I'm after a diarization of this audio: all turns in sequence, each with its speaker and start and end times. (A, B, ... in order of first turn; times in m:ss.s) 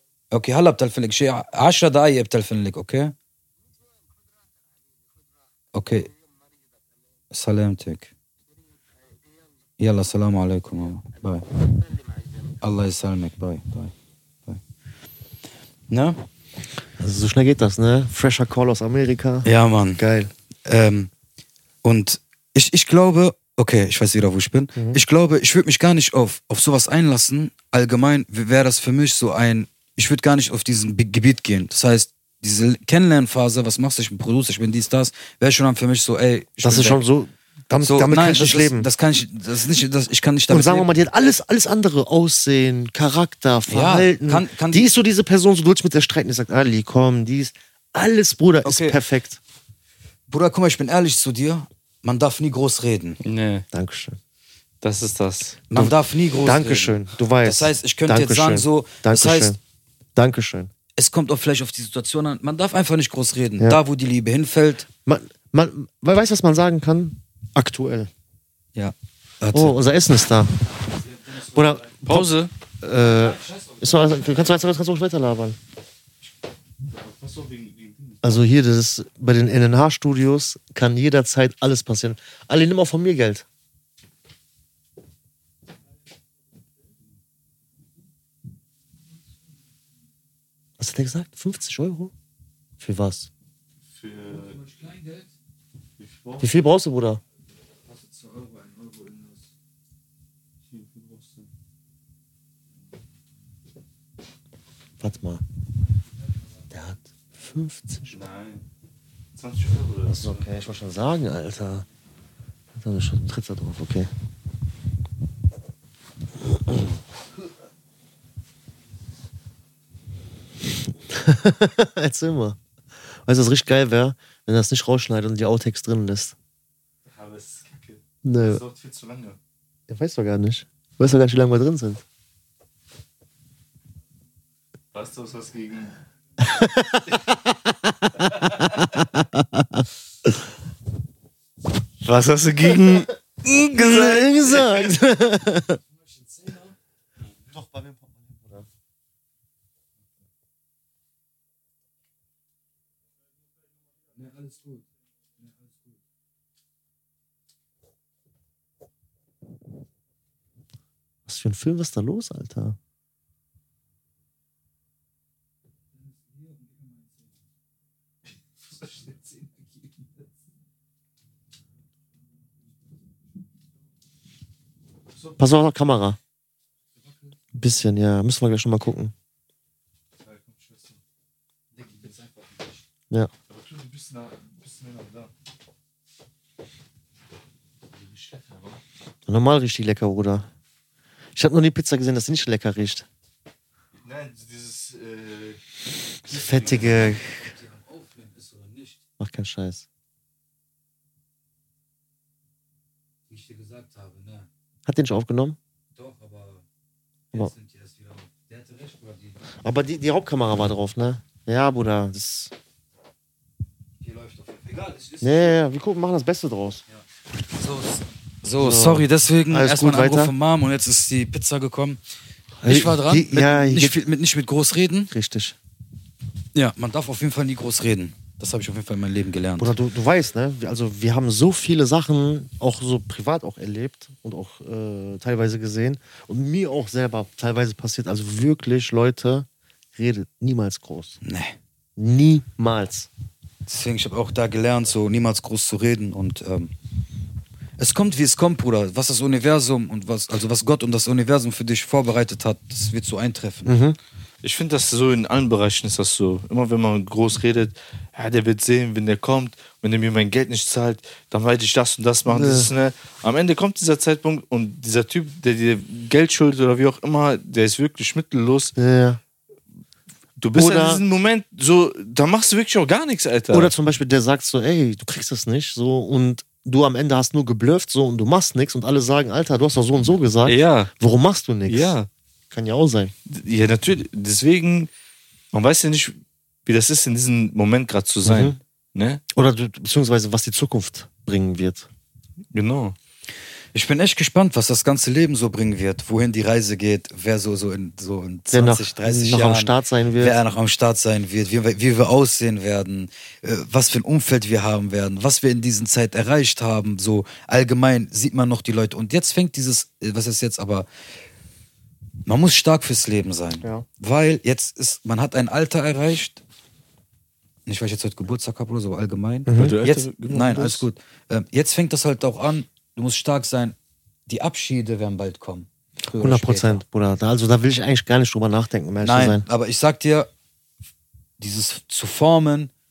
0:00.3-0:03.1 A
0:05.7-0:06.1 A
0:07.3-0:08.1 A
0:09.8-0:11.5 A
0:12.6-0:13.9 A
0:15.9-0:16.2 A
0:17.0-0:19.5 B
0:19.4-0:20.0 A
0:20.0-0:20.3 B
0:20.7-0:21.1 A
0:21.8-0:37.0 A
0:24.8-0:25.0 B
0:36.6-0:38.9 B
0:37.8-0:40.9 A
0:40.5-0:49.4 B
0:43.7-0:44.9 A
0:48.6-0:49.0 A
0:50.3-0:53.2 A
0:53.2-0:53.7 C
0:53.7-0:54.2 B
0:54.8-0:55.6 C
0:55.7-0:59.6 A
0:55.7-0:59.6 B
1:00.2-1:00.7 B
1:01.0-1:04.9 A
1:05.1-1:08.1 B
1:08.8-1:09.8 A
1:09.5-1:10.5 B
1:11.3-1:12.3 B
1:12.0-1:12.5 C
1:12.8-1:15.6 B
1:16.9-1:18.2 C
1:18.2-1:23.5 B
1:30.8-1:32.1 B
1:32.8-1:33.3 B
1:33.9-1:34.6 C
1:34.3-1:35.3 A
1:36.0-1:36.5 C
1:36.4-1:37.2 B
1:37.9-1:39.3 A
1:40.7-1:41.5 C
1:45.0-1:45.4 B
1:46.7-1:48.2 B
1:48.1-1:48.6 C
1:49.4-1:50.4 C
1:50.1-1:51.9 B
1:52.8-1:54.1 B
2:00.9-2:02.6 B
2:03.3-2:06.4 B
2:07.0-2:09.4 C
2:08.2-2:08.6 B
2:09.9-2:12.0 B
2:14.9-2:16.0 C
2:16.4-2:20.3 B
2:18.4-2:18.7 C
2:22.0-2:24.9 C
2:22.6-2:25.8 B
2:26.1-2:26.7 A
2:27.5-2:28.7 B
2:34.2-2:34.8 A
2:41.3-2:42.8 B
2:46.2-2:47.2 A
2:55.4-2:56.2 B
2:57.5-2:59.1 B
3:00.2-3:01.0 C
3:01.8-3:02.6 A
3:03.5-3:05.3 C
3:08.0-3:08.8 C
3:09.3-3:10.5 B
3:11.4-3:13.1 B
3:14.0-3:15.6 C
3:16.3-3:17.5 B
3:16.3-3:16.6 C
3:16.5-3:19.0 A
3:19.2-3:19.8 B
3:23.3-3:24.5 A
3:24.9-3:25.6 B
3:26.0-3:26.6 A
3:27.3-3:29.4 A
3:29.6-3:32.5 B
3:34.0-3:35.6 A
3:35.2-3:36.8 B
3:37.6-3:42.0 A
3:38.6-3:40.3 B
3:42.6-3:44.0 B
3:42.7-3:45.1 A
3:45.1-3:45.6 B
3:46.6-3:49.8 A
3:49.6-4:01.2 B
4:01.2-4:01.6 A
4:02.0-4:03.1 B
4:03.7-4:06.7 A
4:07.8-4:13.7 A
4:13.7-4:14.0 B
4:14.4-4:28.7 C
4:22.3-4:22.7 B
4:28.8-4:29.2 B
4:30.4-4:33.7 C
4:30.6-4:31.0 B
4:33.5-4:42.0 B
4:40.5-4:40.9 C
4:41.7-4:42.1 C
4:42.5-4:43.1 B
4:43.3-4:44.9 C
4:45.5-4:49.2 C
4:48.2-4:48.6 B
4:49.3-4:51.9 B
4:52.5-4:53.0 C
4:53.7-5:10.9 A
4:58.5-5:00.4 B
5:12.3-5:16.4 A
5:17.7-5:23.8 A
5:19.5-5:19.8 B
5:19.6-5:20.8 C
5:24.3-5:26.8 A
5:26.2-5:29.5 B
5:29.0-5:30.3 A
5:31.4-5:32.7 A